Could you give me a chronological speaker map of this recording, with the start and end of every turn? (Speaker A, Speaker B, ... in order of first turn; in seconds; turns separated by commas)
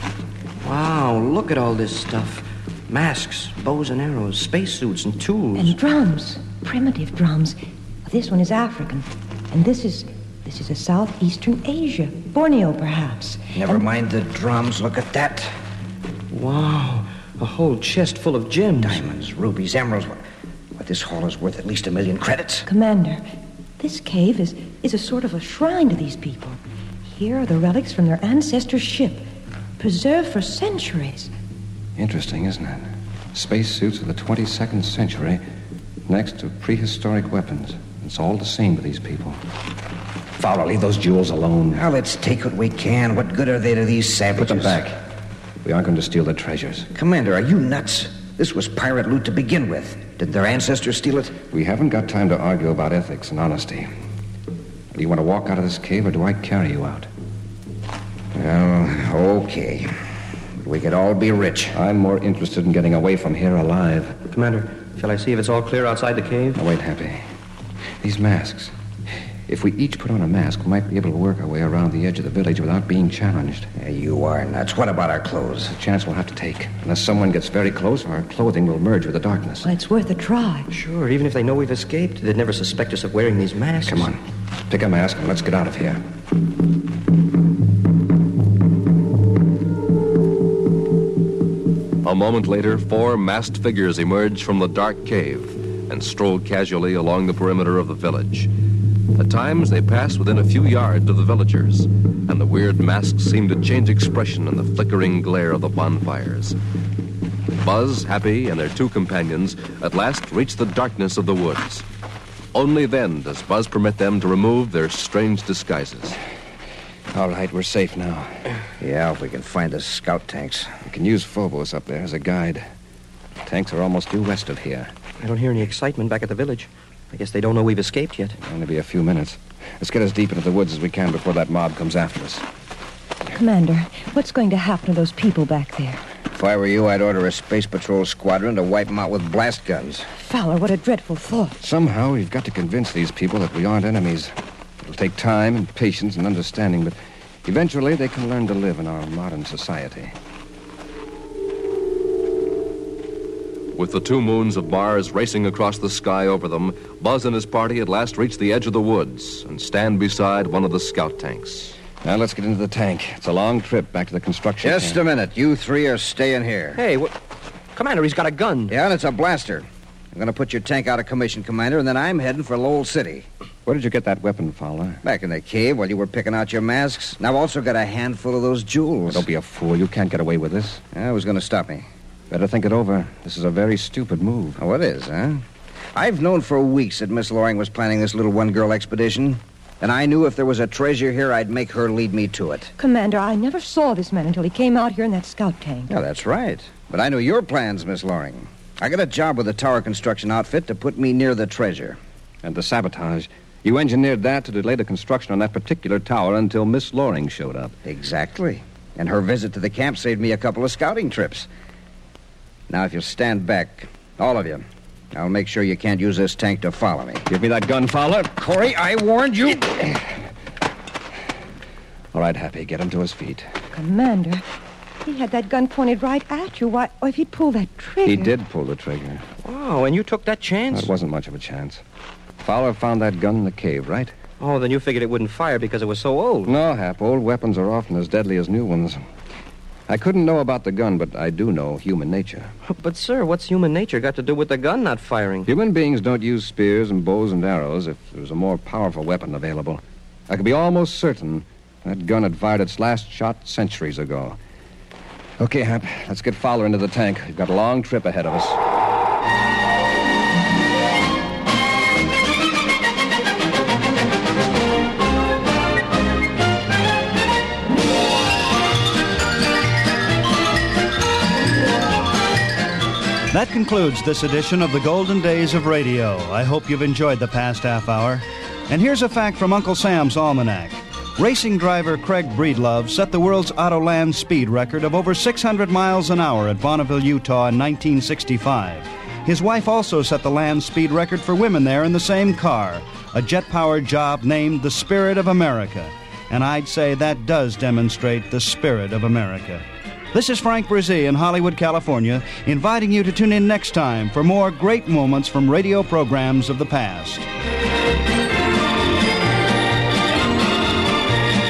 Speaker A: 0.6-5.8, Speaker B: 5.5-13.9, Speaker C: 13.6-15.5, Speaker A: 16.3-19.0, Speaker C: 18.8-20.2, Speaker C: 20.8-22.7, Speaker B: 22.7-23.2, Speaker B: 23.8-29.2, Speaker B: 29.8-31.3, Speaker D: 32.0-35.4, Speaker D: 36.1-39.4, Speaker D: 40.4-41.8, Speaker C: 41.7-44.8, Speaker D: 44.4-45.0, Speaker D: 45.6-46.9, Speaker C: 46.9-51.4, Speaker D: 51.5-53.9, Speaker D: 54.9-57.1, Speaker C: 58.3-59.9, Speaker C: 60.6-61.8, Speaker D: 61.7-64.2, Speaker A: 64.3-66.6, Speaker D: 66.5-67.2, Speaker D: 68.0-68.7, Speaker D: 69.5-73.7, Speaker C: 73.8-75.7, Speaker D: 75.7-79.7, Speaker B: 79.6-80.7, Speaker A: 80.7-84.1, Speaker D: 83.8-84.2, Speaker D: 84.7-86.0, Speaker E: 92.0-98.5, Speaker E: 99.2-106.6, Speaker E: 107.6-111.8, Speaker E: 112.5-116.2, Speaker D: 117.1-118.3, Speaker C: 118.8-120.7, Speaker D: 120.8-122.7, Speaker D: 123.5-124.9, Speaker A: 125.2-128.4, Speaker D: 128.4-132.4, Speaker B: 133.3-136.0, Speaker C: 136.3-140.1, Speaker B: 140.2-141.6, Speaker D: 141.6-144.3, Speaker D: 144.8-150.1, Speaker E: 153.8-161.8, Speaker D: 162.0-165.0, Speaker C: 164.6-166.8, Speaker A: 166.8-167.1, Speaker A: 167.8-168.7, Speaker C: 168.7-173.3, Speaker D: 173.7-175.0, Speaker C: 175.0-179.2, Speaker D: 179.1-180.8, Speaker C: 180.9-181.8, Speaker D: 182.3-184.6, Speaker C: 184.6-185.4, Speaker C: 185.9-192.7, Speaker B: 192.8-195.9, Speaker C: 195.9-202.0, Speaker D: 202.4-207.8, Speaker C: 207.8-211.5, Speaker C: 212.7-217.3, Speaker D: 217.3-218.4, Speaker C: 218.4-219.9, Speaker D: 222.1-223.5, Speaker B: 223.7-224.4, Speaker B: 225.1-228.3, Speaker D: 228.1-229.2, Speaker A: 229.4-230.9, Speaker D: 230.7-231.8, Speaker D: 232.4-234.1, Speaker A: 234.4-236.5, Speaker D: 236.5-239.0, Speaker D: 239.9-242.5, Speaker A: 242.7-245.5, Speaker D: 245.5-254.4, Speaker D: 255.4-258.6, Speaker F: 273.3-307.3